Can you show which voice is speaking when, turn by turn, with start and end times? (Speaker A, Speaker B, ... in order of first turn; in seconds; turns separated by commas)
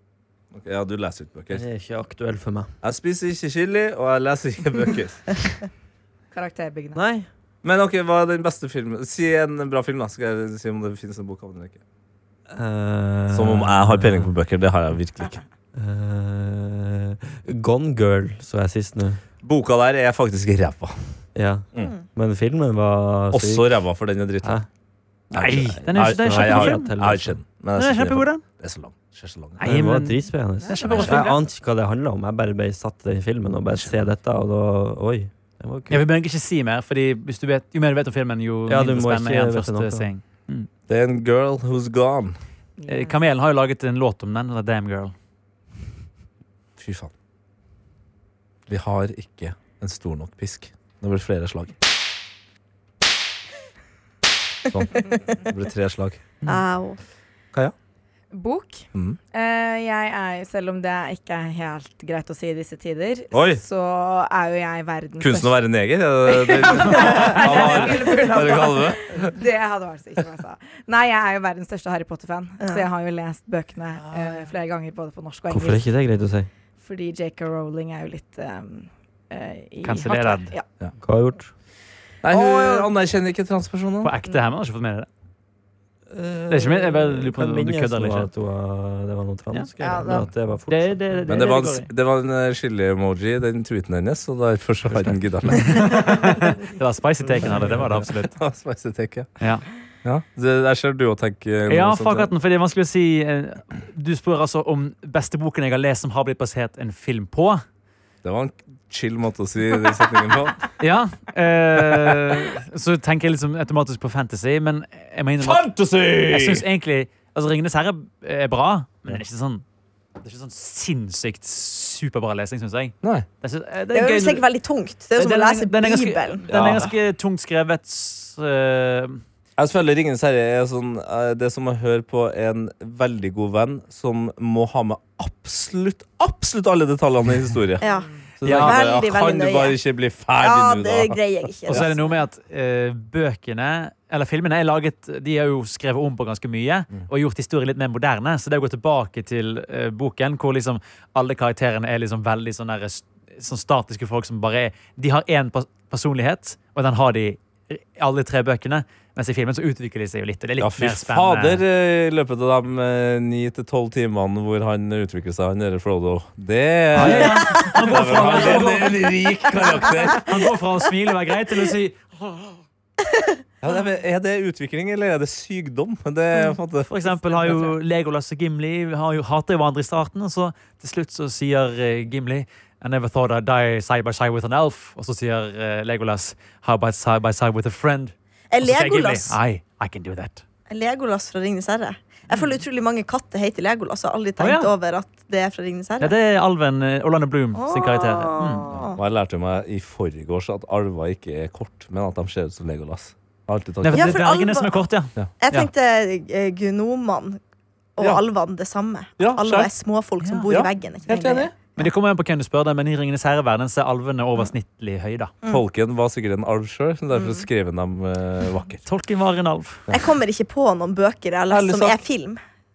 Speaker A: 0.5-1.6, Speaker B: 1.5-2.7, Speaker A: 2.8-5.2, Speaker C: 6.3-7.0, Speaker B: 6.9-7.3, Speaker A: 7.6-11.8, Speaker B: 12.5-14.3, Speaker A: 13.3-15.4, Speaker B: 15.7-19.2, Speaker A: 19.4-21.2, Speaker B: 21.3-23.7, Speaker A: 23.3-24.6, Speaker A: 25.3-29.6, Speaker D: 25.3-26.9, Speaker B: 25.9-27.4, Speaker D: 27.8-28.4, Speaker D: 29.6-31.4, Speaker B: 29.6-36.0, Speaker A: 30.9-31.3, Speaker A: 33.7-34.0, Speaker D: 35.9-40.7, Speaker B: 38.7-40.1, Speaker A: 40.9-42.4, Speaker C: 42.8-43.1, Speaker D: 42.9-45.1, Speaker A: 46.8-47.1, Speaker A: 48.7-51.7, Speaker A: 54.7-56.2, Speaker E: 56.4-57.0, Speaker C: 58.3-65.6, Speaker A: 63.3-63.6, Speaker A: 65.2-69.3, Speaker C: 66.3-75.9, Speaker B: 75.5-76.5, Speaker C: 76.8-80.6, Speaker D: 79.8-80.5, Speaker B: 81.0-81.5, Speaker A: 82.2-84.1, Speaker D: 84.0-85.1, Speaker B: 86.1-91.2, Speaker D: 86.5-88.3, Speaker E: 89.8-90.3, Speaker D: 90.7-91.9, Speaker A: 91.3-96.1, Speaker D: 95.6-98.3, Speaker A: 97.5-99.3, Speaker A: 100.0-102.3, Speaker D: 101.7-107.6, Speaker A: 108.2-110.7, Speaker D: 110.8-115.6, Speaker A: 112.0-112.3, Speaker A: 115.4-116.6, Speaker D: 116.3-119.6, Speaker D: 120.2-124.4, Speaker A: 123.0-123.3, Speaker E: 123.9-126.5, Speaker D: 125.2-129.2, Speaker A: 126.5-126.9, Speaker A: 129.6-141.9, Speaker E: 137.8-139.8, Speaker D: 138.4-138.8, Speaker E: 140.4-142.0, Speaker D: 141.7-161.6, Speaker A: 160.6-170.3, Speaker D: 166.9-169.1, Speaker D: 170.1-172.6, Speaker A: 173.6-177.5, Speaker D: 176.9-190.4, Speaker E: 188.5-189.3, Speaker E: 190.7-196.1, Speaker D: 194.4-194.7, Speaker D: 196.0-198.7, Speaker E: 197.5-199.0, Speaker A: 198.9-204.2, Speaker D: 203.8-205.7, Speaker E: 203.9-204.8, Speaker E: 205.4-207.4, Speaker E: 207.9-211.8, Speaker A: 209.2-209.7, Speaker D: 210.2-210.5, Speaker A: 210.5-211.5, Speaker D: 211.8-215.3, Speaker A: 215.5-218.8, Speaker E: 217.1-217.4, Speaker D: 218.8-219.8, Speaker E: 219.9-222.4, Speaker A: 221.5-222.0